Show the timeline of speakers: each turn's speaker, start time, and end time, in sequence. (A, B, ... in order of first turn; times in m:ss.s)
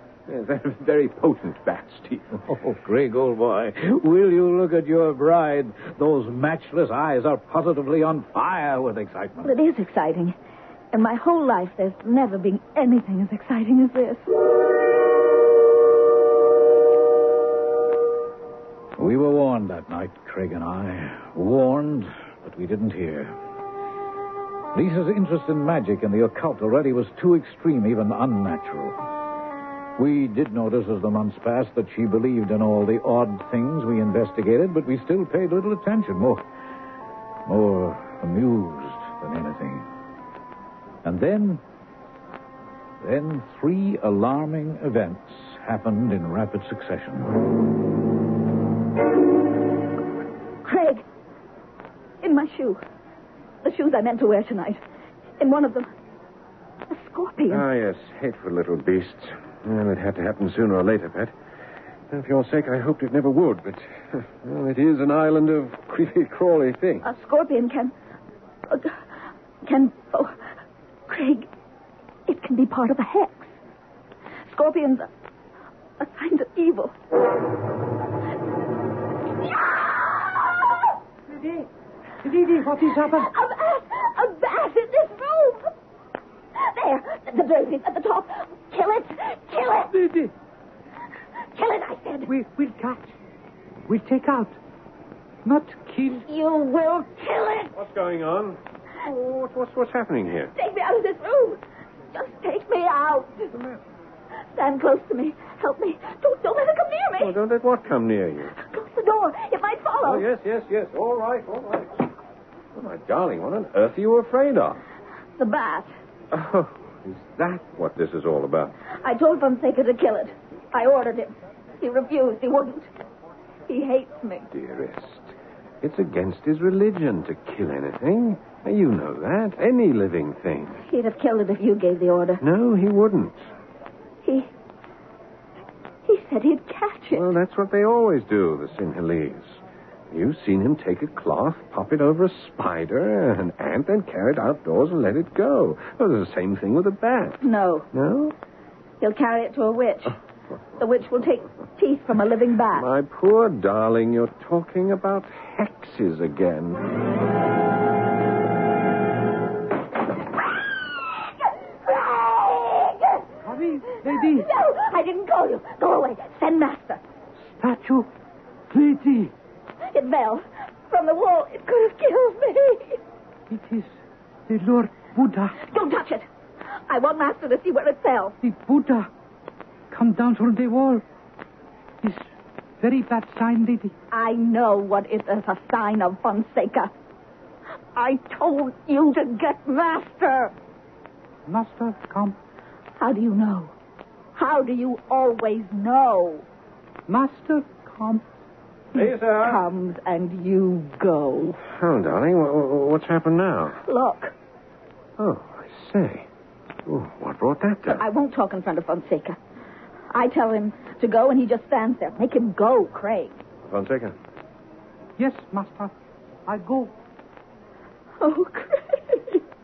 0:00.3-0:02.4 A
0:02.4-0:09.5 B
0:09.4-0:10.4 C
0:10.9-0:14.3 C
0:19.0-0:23.3 B
0:24.7-0:29.0 B
0:30.0-0:36.4 B
0:37.5-0:39.8 B
0:41.0-0:41.6 B
0:43.0-0:47.4 B
0:50.6-0:51.0 C
0:52.2-0:52.8 C
0:53.6-0:54.8 C
0:55.4-0:55.9 C
0:56.9-0:57.7 C
0:57.5-1:01.3 A
1:02.1-1:07.0 A
1:07.0-1:07.9 C
1:08.7-1:09.0 C
1:09.6-1:10.4 C
1:11.1-1:11.5 C
1:12.3-1:13.5 C
1:14.5-1:15.1 C
1:16.0-1:16.9 C
1:19.5-1:20.9 C
1:21.3-1:21.7 D
1:22.2-1:23.3 D
1:23.0-1:25.7 C
1:26.6-1:29.9 C
1:29.9-1:30.3 D
1:31.5-1:32.3 C
1:32.3-1:33.1 D
1:33.9-1:34.6 D
1:35.4-1:36.2 D
1:36.3-1:37.7 C
1:37.8-1:40.5 A
1:40.6-1:41.6 C
1:42.1-1:43.6 C
1:44.6-1:47.3 C
1:47.2-1:48.6 A
1:48.6-1:50.3 C
1:50.0-1:52.1 A
1:52.8-1:54.8 A
1:55.4-1:55.9 C
1:56.3-1:58.7 A
1:59.0-2:02.9 C
2:03.7-2:04.5 C
2:04.5-2:10.8 A
2:10.8-2:12.4 C
2:12.4-2:13.4 A
2:14.2-2:14.5 C
2:16.1-2:17.3 C
2:17.2-2:19.6 A
2:20.1-2:28.4 A
2:27.4-2:27.9 C
2:29.0-2:30.2 C
2:30.8-2:32.9 C
2:32.8-2:36.9 A
2:41.7-2:43.2 C
2:43.4-2:44.5 D
2:44.0-2:47.0 C
2:47.6-2:48.1 D
2:48.7-2:49.3 D
2:49.9-2:53.0 C
2:53.5-2:53.9 D
2:54.5-2:55.6 D
2:55.6-2:56.3 C
2:56.9-2:58.4 C
2:58.4-2:59.1 D
2:59.9-3:01.0 D
3:02.8-3:03.9 D
3:04.1-3:06.9 C
3:07.9-3:10.5 C
3:11.5-3:12.4 D
3:13.0-3:13.7 C
3:14.4-3:16.5 C
3:17.1-3:18.2 D
3:18.9-3:19.6 A
3:18.9-3:21.6 C
3:21.7-3:23.8 A
3:23.8-3:24.4 C
3:25.2-3:26.3 A
3:26.9-3:28.0 A
3:27.9-3:29.4 C
3:30.1-3:33.4 C
3:33.6-3:34.2 A
3:35.2-3:35.9 D
3:36.5-3:36.9 D
3:38.2-3:39.4 C